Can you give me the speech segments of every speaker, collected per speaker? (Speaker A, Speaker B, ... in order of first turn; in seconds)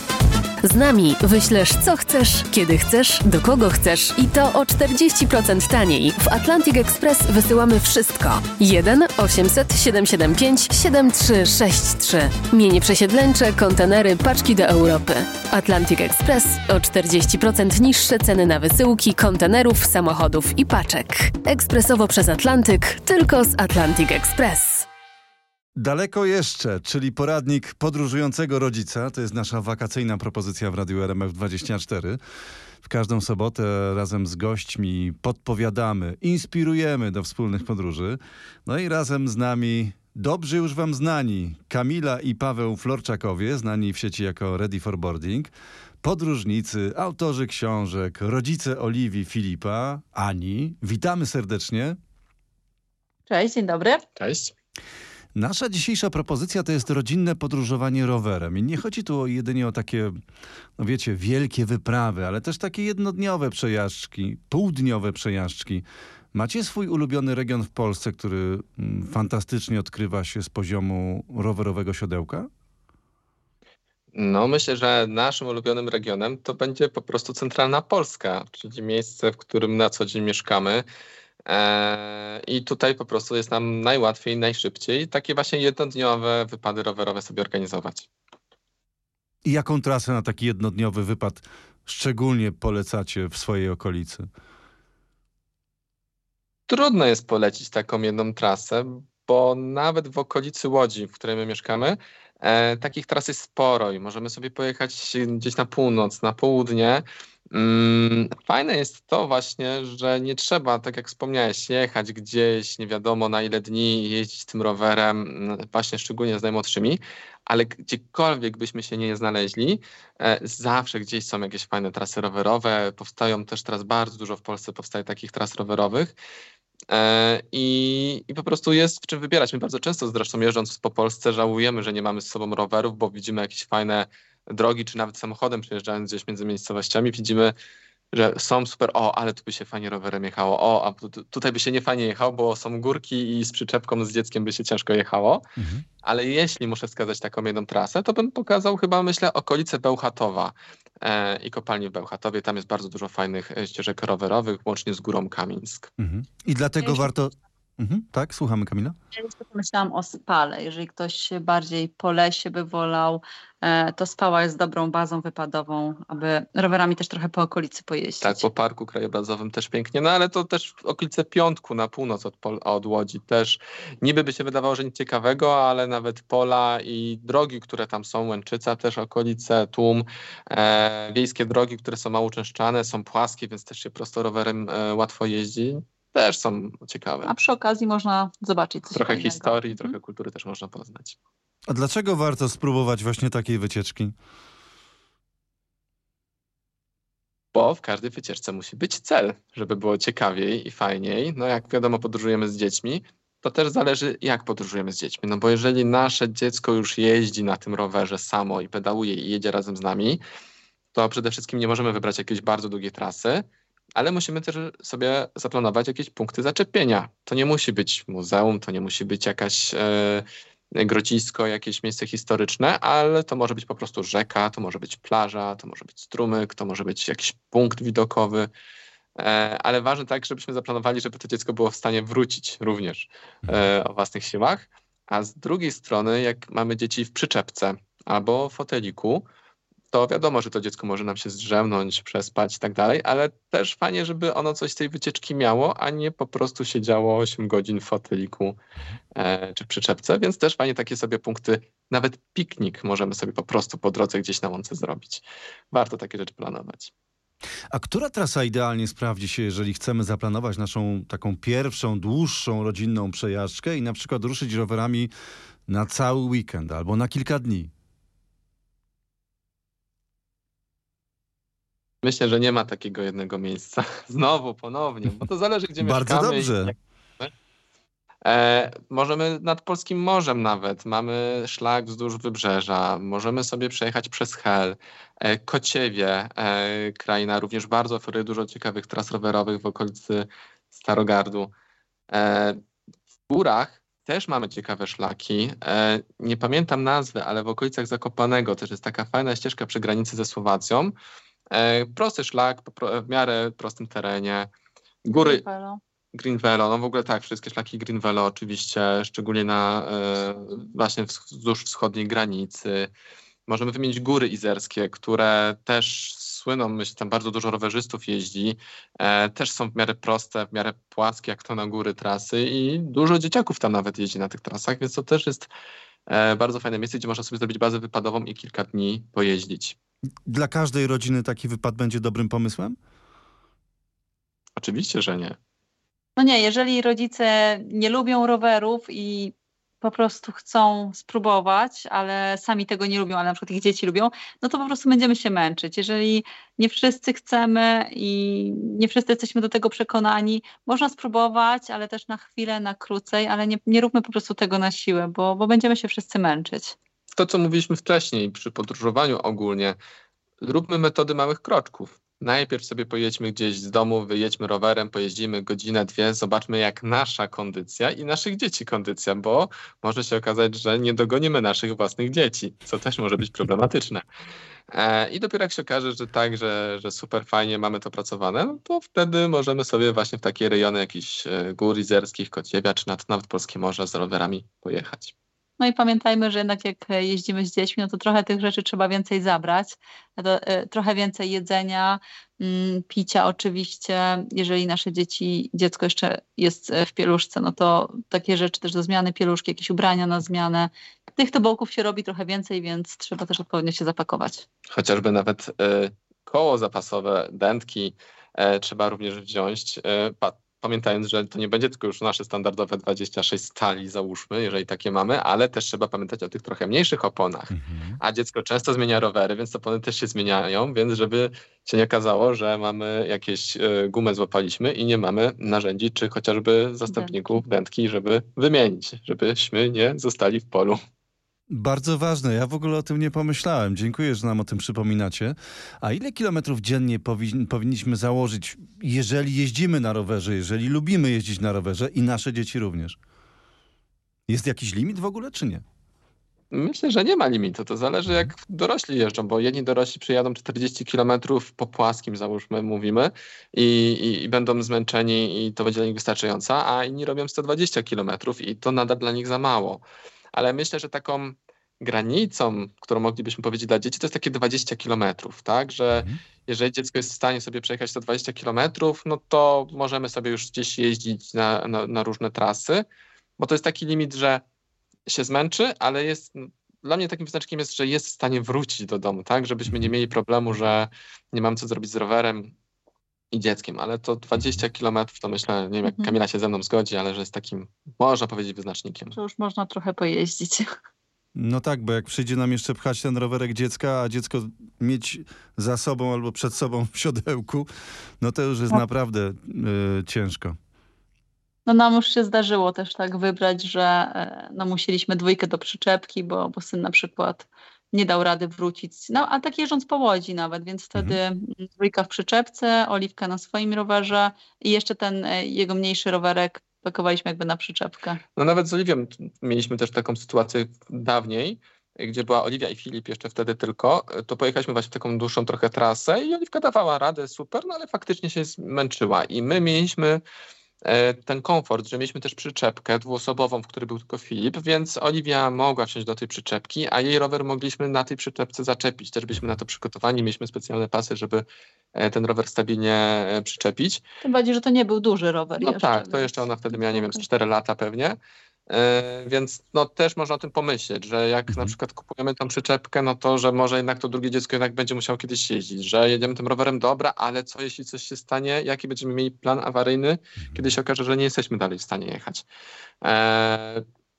Speaker A: 0.6-24.9
Speaker B: 25.8-32.2, 32.8-45.5, 46.0-52.0, 55.3-60.1, 60.8-72.5, 89.4-94.3, 145.6-145.8, 156.0-158.9, 191.7-194.1, 257.7-265.1, 265.7-267.7, 275.8-276.7, 330.3-332.8, 417.5-418.0, 431.5-443.0, 444.3-445.6, 491.4-497.7, 498.2-500.6, 551.5-551.7
Speaker C: 53.3-54.0, 156.8-157.1, 159.1-168.4, 187.2-189.9, 305.1-305.8, 336.1-356.8, 385.6-404.4, 426.9-427.4, 485.8-486.1, 489.1-490.7, 501.6-518.2, 544.2-547.2
Speaker D: 54.2-54.5, 74.1-80.8, 81.5-88.1, 96.7-126.2, 126.9-137.5, 138.1-145.4, 146.0-155.9, 168.2-187.3, 188.9-191.2, 197.5-210.2, 210.9-213.4, 213.9-220.2, 220.8-228.5, 229.2-239.2, 239.9-248.6, 249.2-256.9, 272.0-277.3, 278.2-291.5, 292.1-292.6, 293.3-300.9, 301.5-304.5, 305.0-305.4, 306.1-312.9, 313.5-325.5, 326.1-329.8, 334.6-335.4, 357.2-359.8, 360.4-374.0, 374.7-385.1, 404.7-430.8, 446.5-472.8, 473.4-474.4, 475.1-482.5, 483.3-489.1, 518.4-530.2, 530.8-544.0, 545.6-548.2, 548.7-562.5, 563.0-563.8